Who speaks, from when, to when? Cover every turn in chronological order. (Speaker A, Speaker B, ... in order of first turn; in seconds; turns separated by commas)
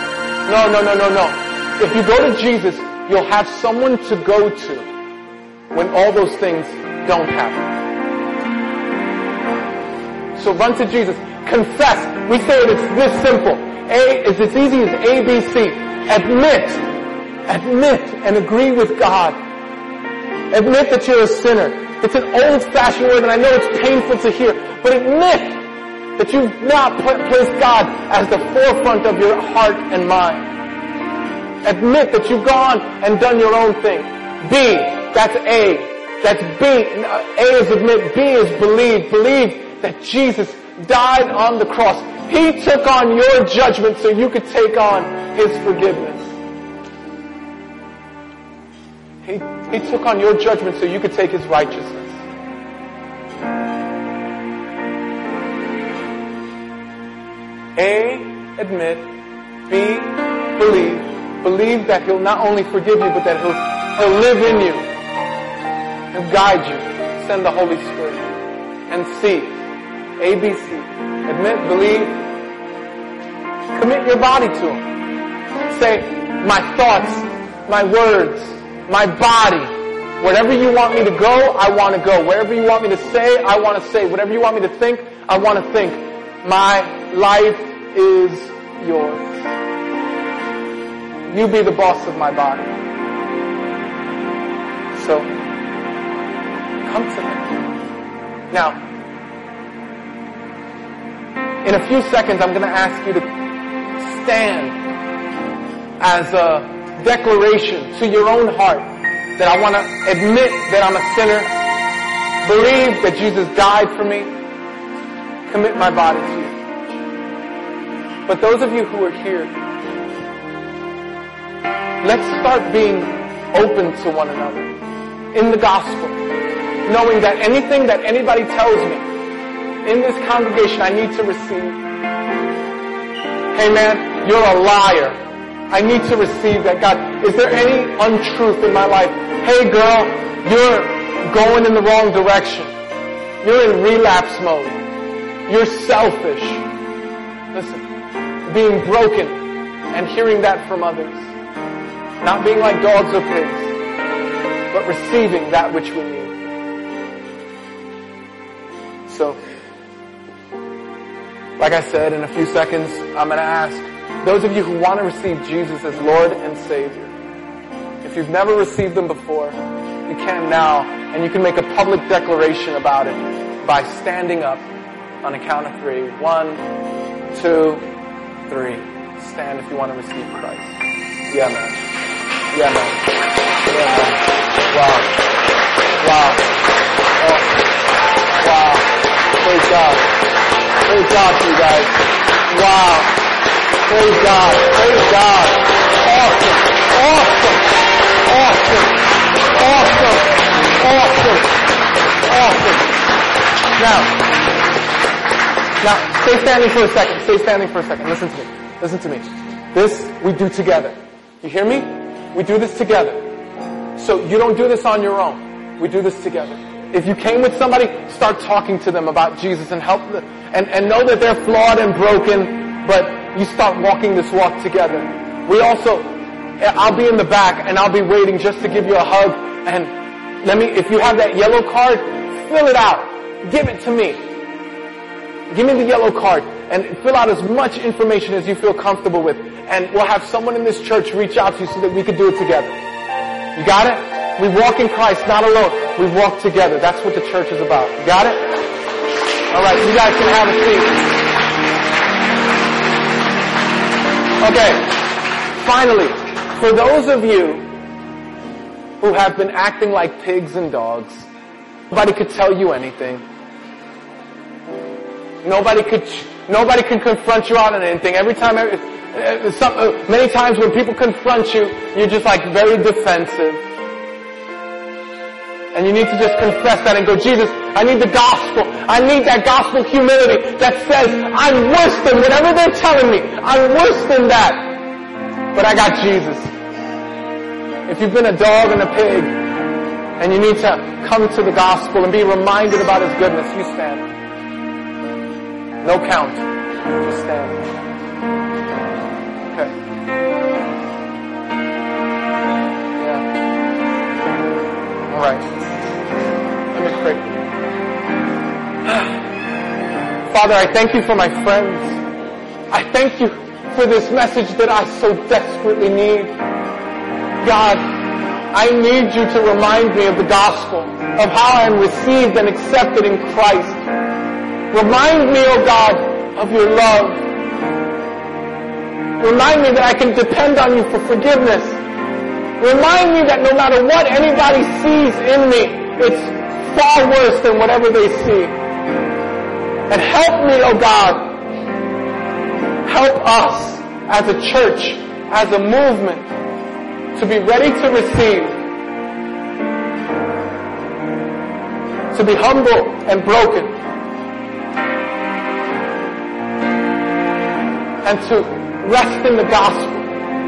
Speaker A: 0.5-4.9, Speaker A: 5.7-7.7, Speaker A: 10.3-16.9, Speaker A: 17.5-19.4, Speaker A: 20.5-30.5, Speaker A: 31.6-46.3, Speaker A: 49.2-52.2, Speaker A: 57.8-59.1, Speaker A: 59.7-64.9, Speaker A: 66.1-68.3, Speaker A: 68.9-69.6, Speaker A: 70.2-72.3, Speaker A: 73.7-74.9, Speaker A: 75.7-89.3, Speaker A: 91.3-92.7, Speaker A: 94.9-95.3, Speaker A: 96.8-97.5, Speaker A: 98.5-98.8, Speaker A: 101.6-103.3, Speaker A: 104.0-104.8, Speaker A: 106.0-111.6, Speaker A: 112.4-114.3, Speaker A: 115.5-116.5, Speaker A: 118.2-119.5, Speaker A: 122.0-124.8, Speaker A: 125.3-126.2, Speaker A: 126.8-129.0, Speaker A: 129.8-131.8, Speaker A: 133.5-135.2, Speaker A: 135.7-142.7, Speaker A: 143.4-144.8, Speaker A: 145.5-146.7, Speaker A: 147.5-147.9, Speaker A: 148.4-151.3, Speaker A: 152.2-153.7, Speaker A: 154.7-156.3, Speaker A: 159.1-159.4, Speaker A: 161.6-167.2, Speaker A: 168.0-174.7, Speaker A: 175.2-176.6, Speaker A: 177.3-177.9, Speaker A: 178.4-181.8, Speaker A: 182.5-183.1, Speaker A: 183.6-185.2, Speaker A: 186.0-186.5, Speaker A: 187.2-187.5, Speaker A: 188.4-190.2, Speaker A: 190.8-193.2, Speaker A: 193.8-201.6, Speaker A: 202.2-203.0, Speaker A: 203.8-204.3, Speaker A: 205.8-213.3, Speaker A: 213.9-234.3, Speaker A: 235.5-242.8, Speaker A: 243.5-248.5, Speaker A: 249.5-251.1, Speaker A: 254.4-257.7, Speaker A: 259.0-261.3, Speaker A: 261.9-263.2, Speaker A: 265.4-273.6, Speaker A: 275.7-284.8, Speaker A: 285.5-286.5, Speaker A: 287.9-289.4, Speaker A: 290.2-294.1, Speaker A: 295.8-297.6, Speaker A: 299.5-299.7, Speaker A: 303.0-303.2, Speaker A: 305.1-305.5, Speaker A: 306.7-307.3, Speaker A: 308.9-309.2, Speaker A: 310.3-312.0, Speaker A: 312.7-316.3, Speaker A: 317.4-323.9, Speaker A: 324.7-327.2, Speaker A: 329.2-331.8, Speaker A: 332.6-338.5, Speaker A: 339.9-341.4, Speaker A: 342.8-346.3, Speaker A: 347.1-348.6, Speaker A: 352.1-353.8, Speaker A: 358.0-360.2